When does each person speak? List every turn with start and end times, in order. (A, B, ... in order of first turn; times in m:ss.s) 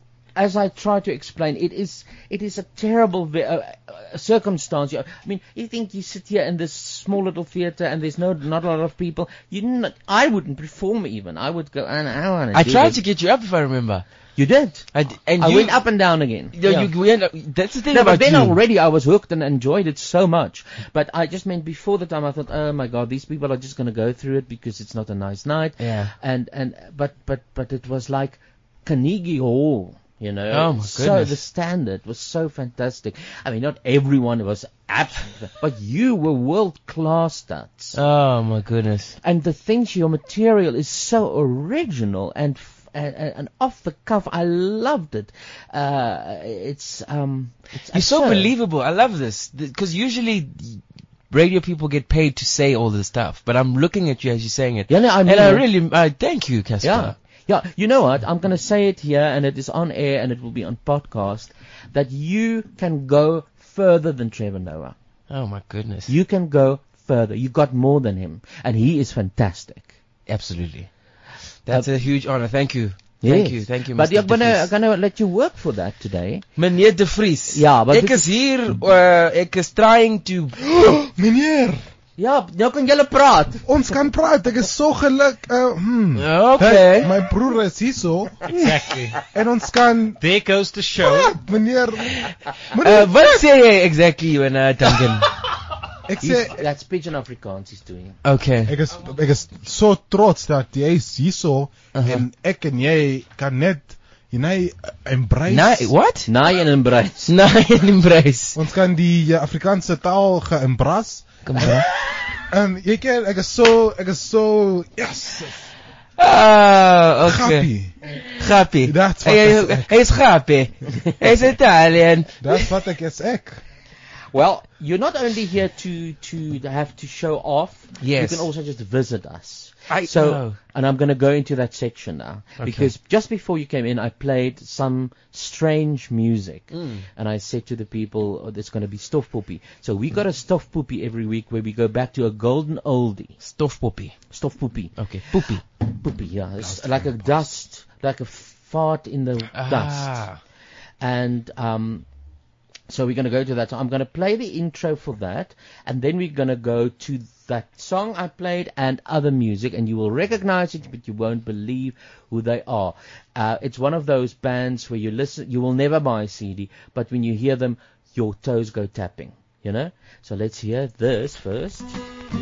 0:00.4-0:13.0 A
0:12.5-0:14.0 B
0:14.4-0:16.9 A
0:14.9-0:15.8 B
0:16.5-0:18.6 B
0:17.9-0:38.0 A
0:25.8-0:26.1 B
0:30.5-0:31.4 B
0:37.9-0:39.2 B
0:39.2-0:48.5 A
0:47.8-0:57.2 B
0:54.9-0:55.7 A
0:56.8-1:04.9 A
1:05.3-1:06.1 B
1:06.1-1:09.9 A
1:10.3-1:10.9 B
1:11.6-1:14.7 B
1:13.2-1:16.4 A
1:16.6-1:20.6 B
1:17.5-1:18.3 A
1:20.7-1:21.8 C
1:22.2-1:23.6 A
1:23.6-1:28.5 C
1:26.2-1:27.1 B
1:28.5-1:29.2 D
1:29.3-1:30.2 C
1:30.2-1:31.4 D
1:31.0-1:33.4 C
1:32.8-1:35.3 B
1:36.0-1:36.6 C
1:36.2-1:38.2 A
1:38.2-1:38.8 B
1:38.6-1:45.9 C
1:41.9-1:42.2 B
1:45.5-1:46.3 B
1:46.2-1:47.3 A
1:47.2-1:48.6 B
1:48.5-1:51.9 C
1:51.4-1:51.9 B
1:52.4-1:55.7 C
1:56.2-1:57.7 B
1:57.2-1:58.0 C
1:58.3-2:02.7 B
1:58.8-2:00.2 C
2:02.4-2:03.6 C
2:04.3-2:23.4 A
2:08.0-2:08.5 B
2:09.9-2:10.6 B
2:12.6-2:12.9 B
2:16.7-2:17.0 B
2:23.4-2:24.2 B
2:24.3-2:30.3 A
2:25.0-2:25.6 B
2:26.6-2:27.3 B
2:29.5-2:30.4 B
2:31.0-2:32.0 A
2:32.9-2:51.9 A